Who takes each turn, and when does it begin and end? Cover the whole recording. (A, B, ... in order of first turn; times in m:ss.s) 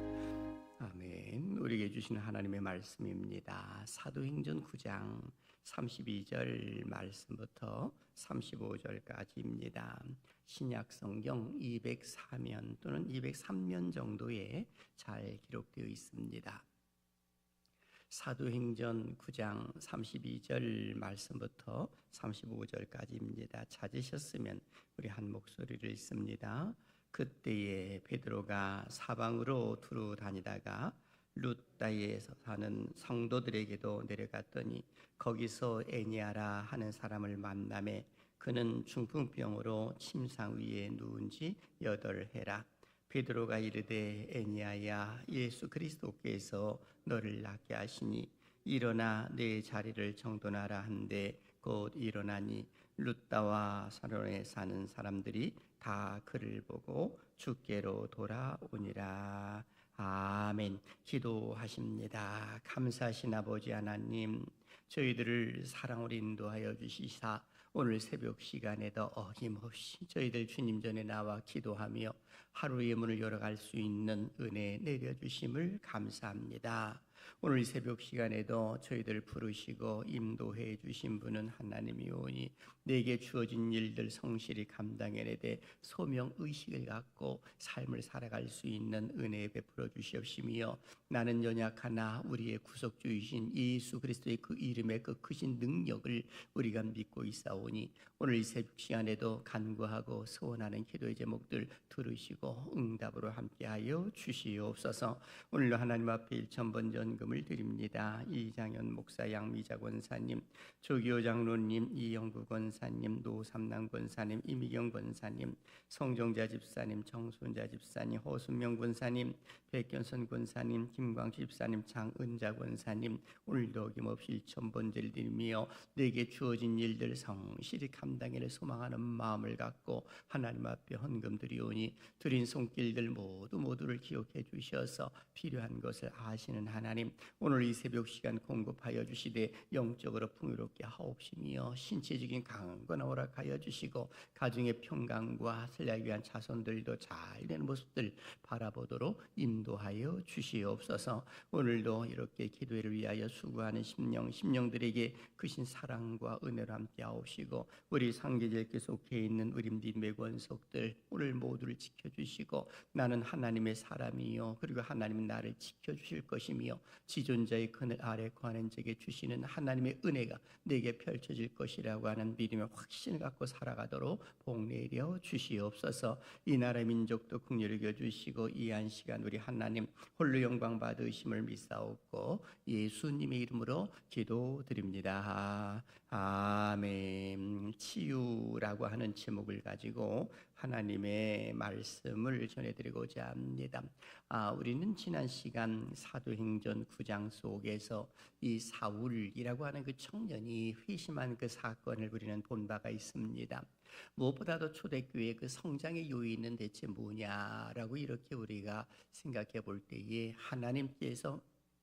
0:00.8-0:16.6 A
0:18.1-3:31.4 A